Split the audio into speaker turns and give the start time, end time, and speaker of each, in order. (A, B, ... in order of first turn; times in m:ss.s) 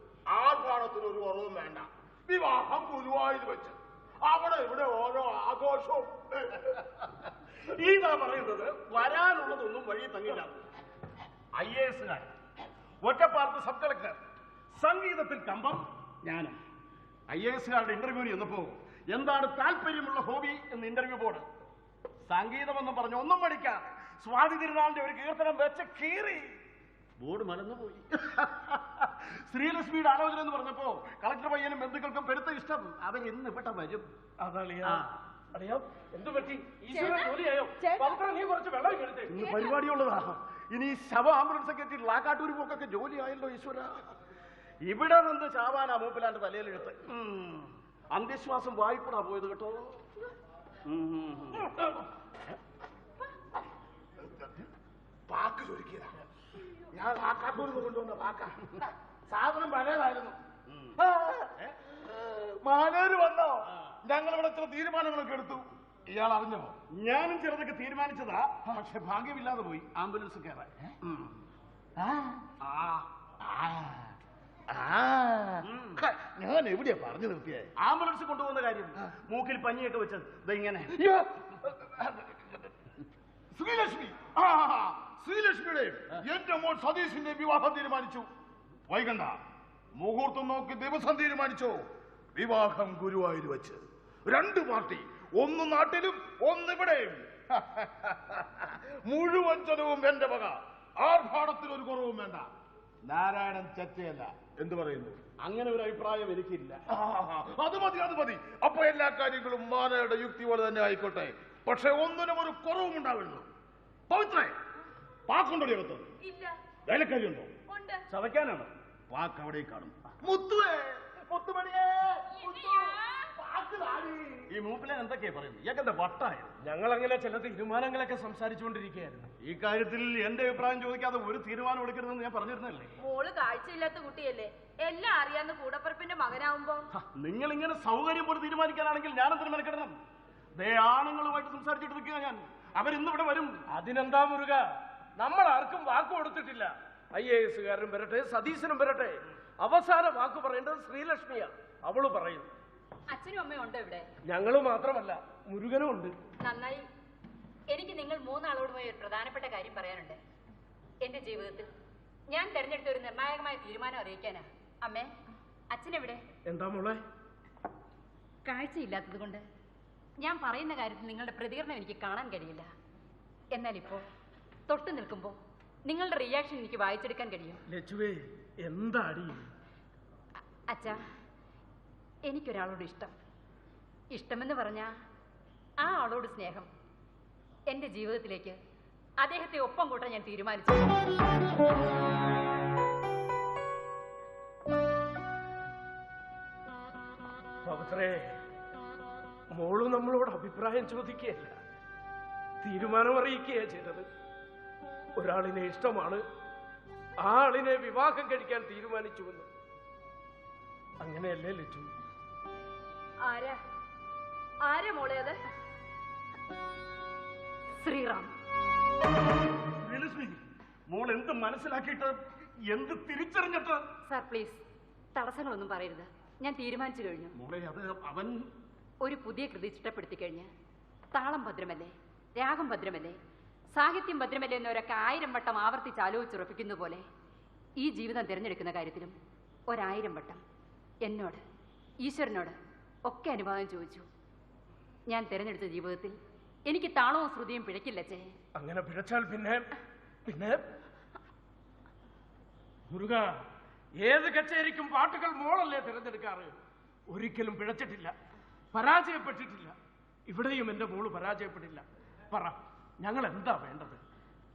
0:00.3-0:06.9 A
0:07.6-0:10.6 B
0:11.6-0:12.3 B
0:13.0-0:14.2 B
0:14.8-0:16.6 B
0:17.3-0:21.5 B
0:22.2-0:26.6 B
0:27.2-0:34.1 B
0:34.4-0:39.4 C
0:36.9-0:38.2 D
0:39.3-0:44.1 B
0:39.4-0:39.8 D
0:44.8-0:50.0 B
0:50.9-0:51.8 B
0:55.3-0:56.1 A
0:56.9-1:00.4 A
1:00.7-1:01.0 B
1:01.1-1:06.8 A
1:06.9-1:11.3 B
1:12.0-1:12.4 A
1:12.6-1:13.1 B
1:13.4-1:14.1 A
1:14.7-1:17.7 A
1:15.6-1:16.0 B
1:17.8-1:20.9 B
1:21.0-1:22.6 A
1:23.5-1:28.3 A
1:28.9-1:29.4 A
1:30.0-1:31.8 A
1:32.4-1:42.5 A
1:43.0-1:45.3 A
1:45.4-1:46.8 B
1:46.9-1:53.5 A
1:54.1-1:54.5 A
1:55.3-1:56.1 A
1:56.2-1:56.6 D
1:56.9-1:57.4 A
1:57.1-1:57.5 B
1:57.7-1:58.0 D
1:58.1-2:00.0 B
2:00.2-2:02.9 A
2:02.3-2:03.3 D
2:03.4-2:04.4 A
2:04.5-2:06.5 B
2:06.6-2:09.3 C
2:09.4-2:12.9 B
2:13.0-2:16.8 D
2:17.0-2:20.0 B
2:20.6-2:23.6 B
2:23.7-2:32.5 C
2:33.1-2:34.1 E
2:34.2-2:36.2 C
2:36.4-2:36.9 E
2:37.7-2:40.2 E
2:41.0-2:41.7 E
2:42.3-2:45.1 E
2:45.7-2:46.3 E
2:46.4-2:47.0 C
2:48.4-2:49.4 E
2:50.2-2:52.7 E
2:53.5-2:54.0 E
2:54.7-2:57.6 E
2:57.7-2:59.5 C
3:00.7-3:01.0 E
3:02.3-3:03.1 E
3:04.1-3:04.9 E
3:05.8-3:06.7 E
3:07.7-3:08.6 E
3:09.2-3:11.0 E
3:17.6-3:18.4 C
3:19.5-3:21.6 C
3:22.6-3:24.1 C
3:25.2-3:26.2 C
3:27.2-3:29.5 C
3:31.0-3:31.9 C
3:33.2-3:33.6 D
3:34.6-3:35.4 D
3:37.8-3:38.3 E
3:39.8-3:43.9 B
3:44.1-3:44.6 E
3:45.2-3:47.4 E
3:47.3-3:48.5 B
3:49.0-3:50.5 E
3:51.1-3:53.2 E
3:53.7-3:57.1 E
3:57.8-3:59.2 E
3:59.7-4:00.4 E
4:01.0-4:01.4 E
4:02.0-4:04.1 E
4:05.1-4:06.2 E
4:06.7-4:08.3 E
4:08.6-4:09.7 C
4:10.3-4:10.6 C
4:12.9-4:13.4 C
4:14.0-4:16.6 C
4:17.1-4:18.2 C
4:18.7-4:19.8 C
4:20.3-4:24.0 C